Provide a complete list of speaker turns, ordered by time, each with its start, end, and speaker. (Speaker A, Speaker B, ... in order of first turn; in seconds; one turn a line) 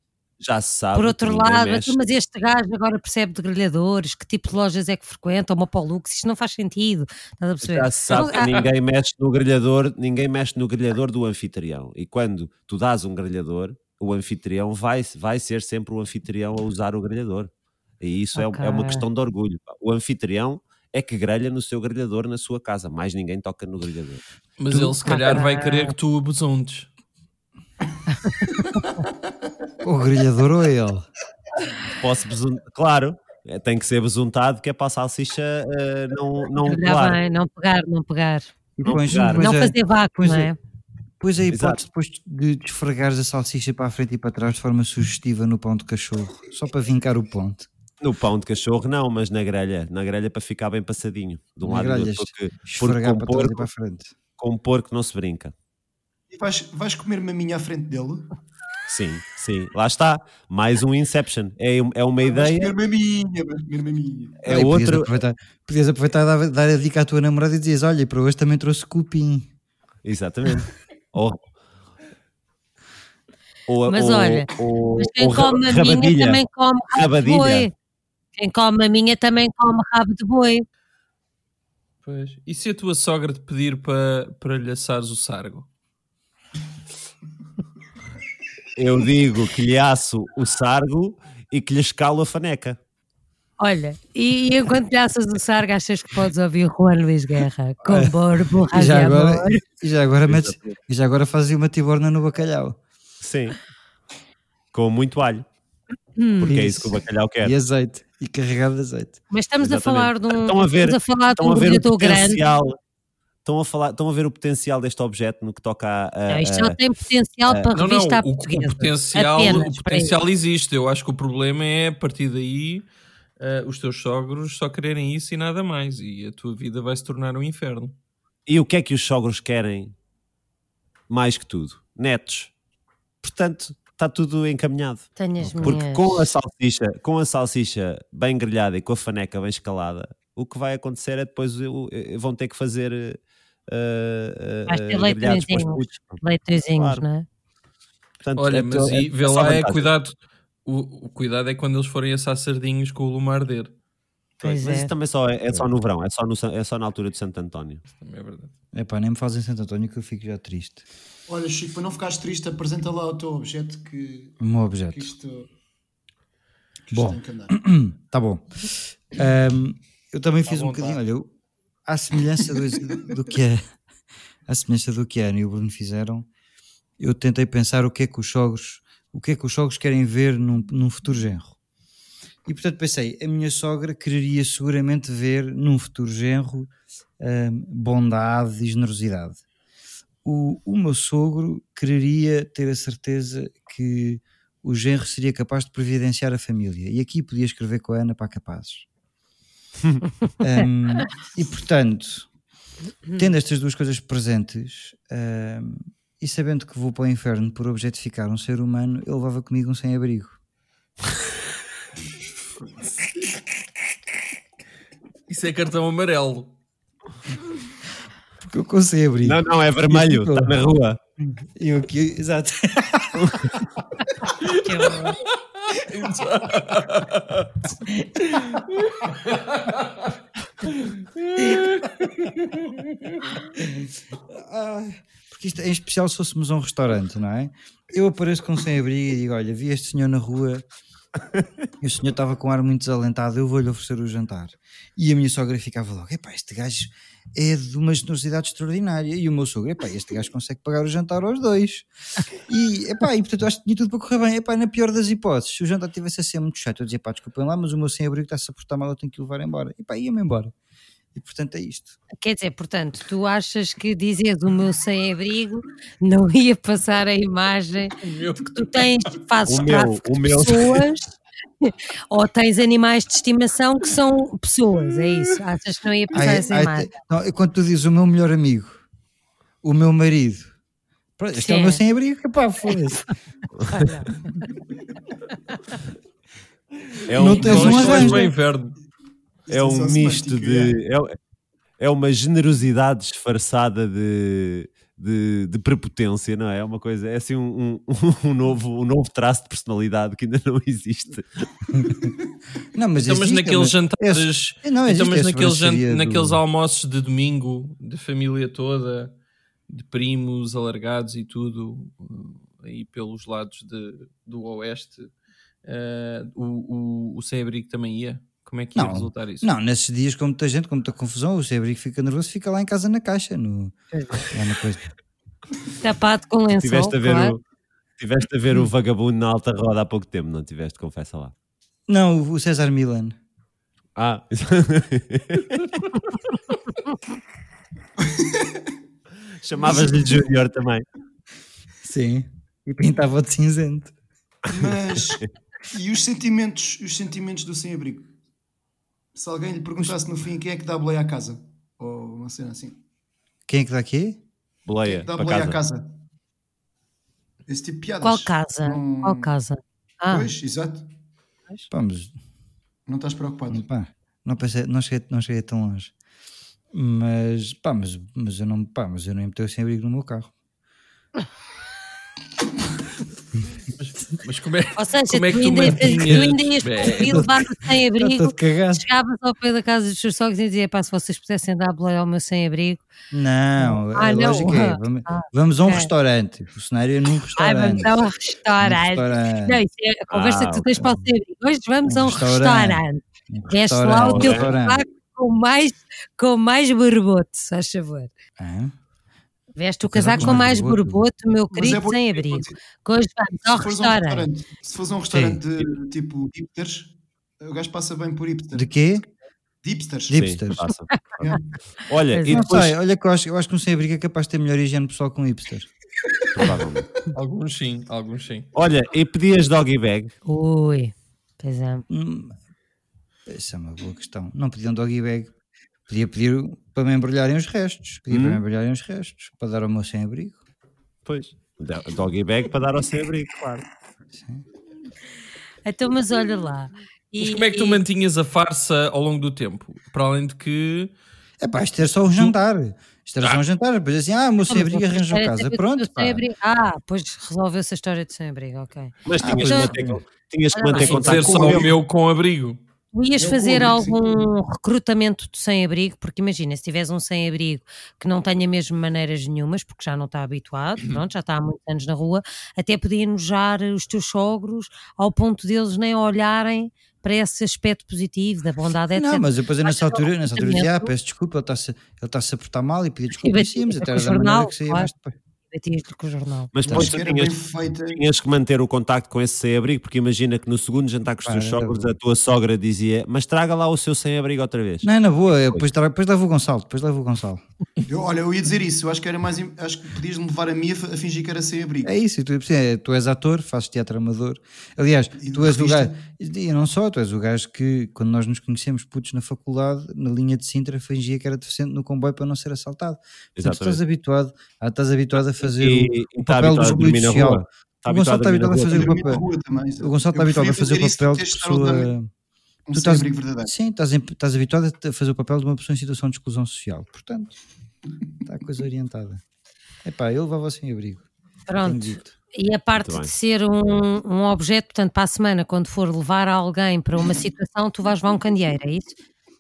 Speaker A: 0.4-2.0
Speaker B: 0.9-8.7
Speaker A: 7.6-24.2
Speaker B: 18.3-19.1
Speaker C: 24.6-26.9
Speaker D: 24.7-25.0
Speaker B: 25.0-25.9
Speaker B: 28.1-29.1
Speaker D: 29.8-31.1
Speaker A: 31.9-37.2
Speaker B: 36.6-38.5
Speaker D: 38.8-40.5
Speaker A: 38.9-39.5
Speaker B: 39.2-40.6
Speaker D: 41.2-47.7
Speaker A: 41.5-41.8
Speaker A: 48.0-53.7
Speaker D: 51.6-54.1
Speaker A: 54.4-55.5
Speaker E: 56.3-58.3
Speaker A: 58.9-62.7
Speaker E: 62.2-64.6
Speaker A: 64.4-65.1
Speaker D: 64.5-69.5
Speaker A: 70.0-71.5
Speaker A: 73.7-77.7
Speaker B: 73.9-77.7
Speaker B: 78.4-80.6
Speaker C: 82.0-85.7
Speaker A: 88.8-92.8
Speaker B: 93.6-99.6
Speaker D: 97.9-98.2
Speaker D: 98.7-102.8
Speaker A: 100.3-100.8
Speaker A: 103.2-103.6
Speaker A: 104.7-105.5
Speaker B: 106.2-106.7
Speaker A: 106.4-107.5
Speaker D: 106.4-109.2
Speaker B: 109.3-112.4
Speaker A: 109.6-112.8
Speaker A: 113.4-116.8
Speaker B: 116.3-120.2
Speaker C: 117.8-122.9
Speaker C: 123.4-128.0
Speaker A: 128.5-129.9
Speaker A: 131.1-132.5
Speaker A: 133.2-147.0
Speaker B: 135.2-136.2
Speaker B: 144.7-147.3
Speaker A: 148.2-149.9
Speaker C: 148.4-153.7
Speaker A: 154.4-157.8
Speaker B: 154.4-154.9
Speaker C: 158.0-158.5
Speaker D: 158.7-160.8
Speaker E: 161.3-165.5
Speaker D: 164.4-165.1
Speaker E: 166.8-167.6
Speaker D: 166.9-171.3
Speaker C: 170.5-171.0
Speaker D: 171.8-173.6
Speaker D: 174.5-176.3
Speaker D: 177.0-181.5
Speaker D: 182.5-189.4
Speaker D: 190.2-198.9
Speaker D: 200.4-202.3
Speaker D: 203.2-210.4
Speaker C: 215.3-216.5
Speaker D: 218.4-220.6
Speaker A: 219.2-221.0
Speaker D: 221.3-223.3
Speaker A: 223.2-223.5
Speaker C: 224.4-227.5
Speaker B: 224.6-225.2
Speaker D: 227.9-228.3
Speaker C: 228.2-230.1
Speaker C: 230.7-233.3
Speaker D: 233.6-240.6
Speaker D: 241.8-260.5
Speaker D: 261.1-262.0
Speaker B: 262.2-276.9
Speaker C: 268.0-268.6
Speaker A: 269.5-270.9
Speaker D: 276.1-278.8
Speaker D: 279.6-280.6
Speaker D: 281.2-283.1
Speaker B: 281.4-281.8
Speaker B: 283.7-284.5
Speaker A: 287.1-288.2
Speaker D: 287.2-288.2
Speaker C: 287.2-288.8
Speaker E: 287.5-287.9
Speaker E: 289.5-290.8
Speaker A: 289.5-291.1
Speaker A: 291.8-301.3
Speaker D: 301.8-302.0
Speaker D: 302.7-306.4
Speaker C: 303.0-309.1
Speaker C: 309.7-315.1
Speaker C: 315.6-319.5
Speaker D: 318.8-323.7
Speaker B: 323.9-324.3
Speaker D: 324.3-324.8
Speaker B: 325.8-327.3
Speaker A: 326.6-327.4
Speaker A: 328.0-331.3
Speaker D: 331.9-333.1
Speaker A: 334.0-335.8
Speaker E: 338.0-338.7
Speaker A: 339.4-340.9
Speaker E: 339.6-340.3
Speaker D: 341.8-343.9
Speaker E: 344.5-348.1
Speaker E: 349.1-352.8
Speaker D: 353.5-354.2
Speaker A: 354.7-355.6
Speaker E: 354.8-355.9
Speaker E: 357.5-359.3
Speaker B: 358.0-360.3
Speaker E: 360.1-360.9
Speaker D: 361.7-362.1
Speaker E: 362.9-363.6
Speaker D: 363.5-365.9
Speaker D: 366.7-370.3
Speaker C: 373.8-377.3
Speaker B: 374.8-382.8
Speaker D: 376.9-377.3
Speaker D: 378.0-378.9
Speaker D: 383.1-388.0
Speaker B: 383.6-385.9
Speaker B: 387.4-398.1
Speaker D: 388.6-389.6
Speaker A: 390.1-390.8
Speaker D: 390.8-391.0
Speaker D: 391.9-394.8
Speaker A: 394.0-394.5
Speaker D: 398.4-398.7
Speaker B: 399.6-404.3
Speaker D: 399.9-401.1
Speaker E: 401.5-402.6
Speaker E: 403.4-409.0
Speaker D: 405.1-405.4
Speaker D: 408.5-409.0
Speaker E: 409.6-410.2
Speaker D: 410.1-410.6
Speaker A: 410.1-412.8
Speaker B: 412.1-412.4
Speaker D: 412.3-415.7
Speaker A: 416.4-416.9
Speaker C: 417.1-418.5
Speaker A: 418.5-420.1
Speaker B: 420.3-421.9
Speaker D: 421.9-422.4
Speaker D: 423.3-425.3
Speaker D: 425.9-430.4
Speaker A: 428.1-428.4
Speaker A: 431.1-433.6
Speaker D: 434.1-434.4
Speaker B: 435.6-437.8
Speaker C: 437.2-440.9
Speaker D: 441.4-446.2
Speaker B: 444.4-449.8
Speaker A: 449.1-451.7
Speaker D: 449.2-450.0
Speaker B: 450.5-451.6
Speaker C: 450.8-452.6
Speaker E: 450.8-451.6
Speaker B: 452.9-470.9
Speaker E: 453.2-454.1
Speaker D: 468.9-475.1
Speaker B: 473.1-474.9
Speaker B: 475.5-476.5
Speaker A: 476.5-477.4
Speaker D: 476.7-476.9
Speaker E: 476.7-478.0
Speaker A: 477.9-484.9
Speaker D: 481.2-481.9
Speaker D: 484.8-487.4
Speaker E: 487.9-491.9
Speaker D: 491.8-509.2
Speaker E: 495.2-496.0
Speaker A: 503.4-503.8
Speaker A: 505.4-508.9
Speaker E: 508.7-511.9
Speaker D: 509.8-512.1
Speaker E: 512.7-513.5
Speaker D: 512.7-517.4
Speaker D: 518.2-519.2
Speaker D: 519.8-521.1
Speaker B: 521.5-529.0
Speaker D: 521.6-522.1
Speaker A: 522.8-523.1